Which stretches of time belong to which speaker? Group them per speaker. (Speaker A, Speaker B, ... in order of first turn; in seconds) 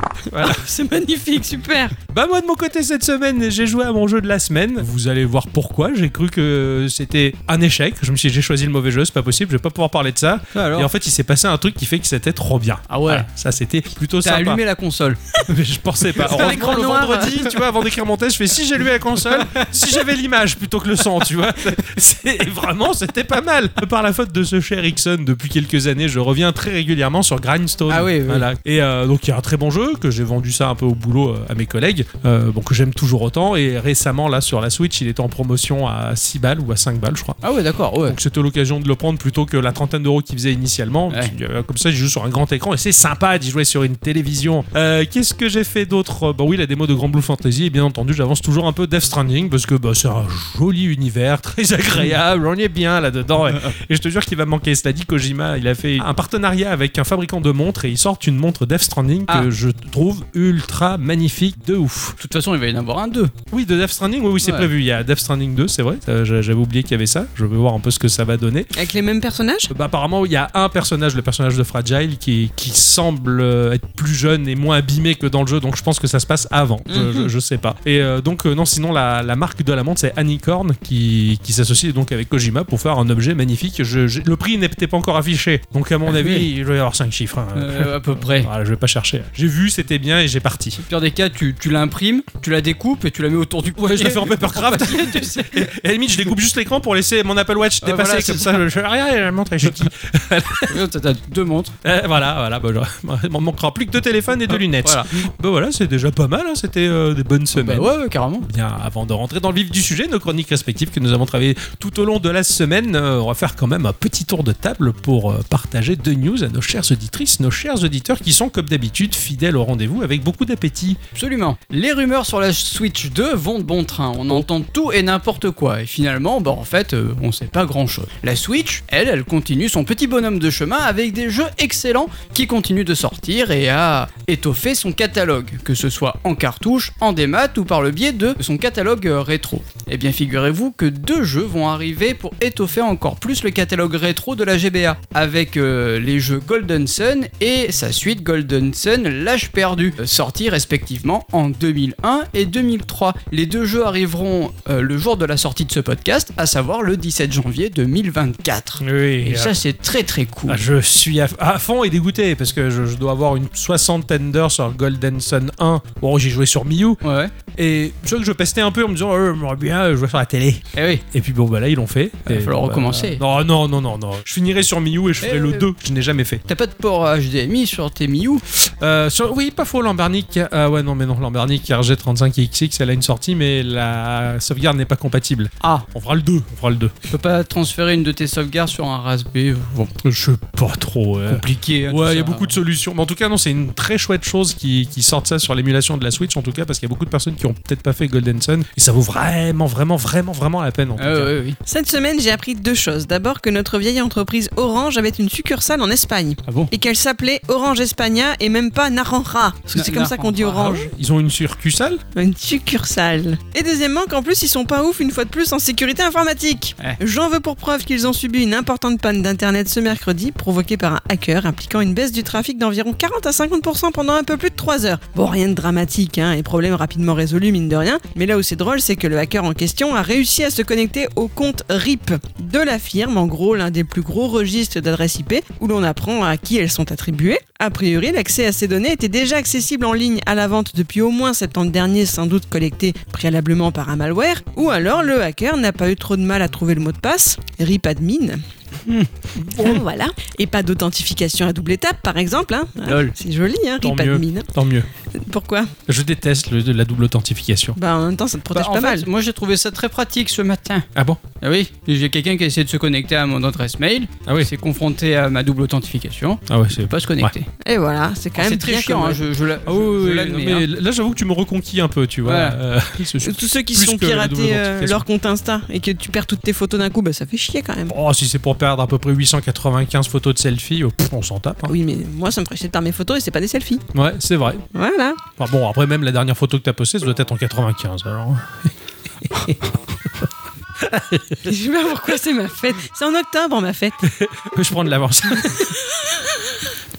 Speaker A: 0.3-0.6, 2.1-14.6, 15.5-37.4, 38.0-62.2, 63.5-68.7, 69.7-90.8, 93.8-100.8, 101.8-107.9, 108.4-121.0, 158.8-159.5, 160.5-167.0, 167.5-176.4, 178.7-186.9, 190.0-201.3, 210.6-212.0, 249.3-249.8, 253.8-254.9, 255.9-257.8, 260.9-261.2, 266.5-267.3, 269.6-275.0, 277.9-281.7, 283.9-284.6, 285.4-288.7, 290.8-291.5, 294.0-295.7
Speaker B: 0.3-1.9, 16.2-17.4, 68.7-69.7, 76.9-77.3, 201.7-210.9, 212.1-248.4, 249.6-254.5, 255.2-255.7, 257.8-259.1, 267.6-269.2, 273.2-277.9, 281.6-283.8, 284.7-285.2, 291.4-294.0, 295.9-296.5
Speaker C: 10.5-10.9, 12.9-13.3, 14.2-15.4, 16.2-17.4, 19.2-19.7, 27.9-28.5, 37.4-38.2, 53.5-53.7, 62.2-63.3, 64.4-64.7, 86.1-86.5, 87.5-88.5, 90.9-95.7, 97.8-98.6, 100.7-101.7, 104.5-105.2, 107.5-108.5, 121.2-160.6, 167.0-167.3, 170.8-171.0, 172.3-173.2, 175.2-175.7, 176.5-178.4, 187.1-189.9, 191.3-192.5, 201.0-201.6, 209.7-210.7, 252.8-253.1, 258.5-260.9, 261.4-267.5, 268.4-270.6, 272.2-272.6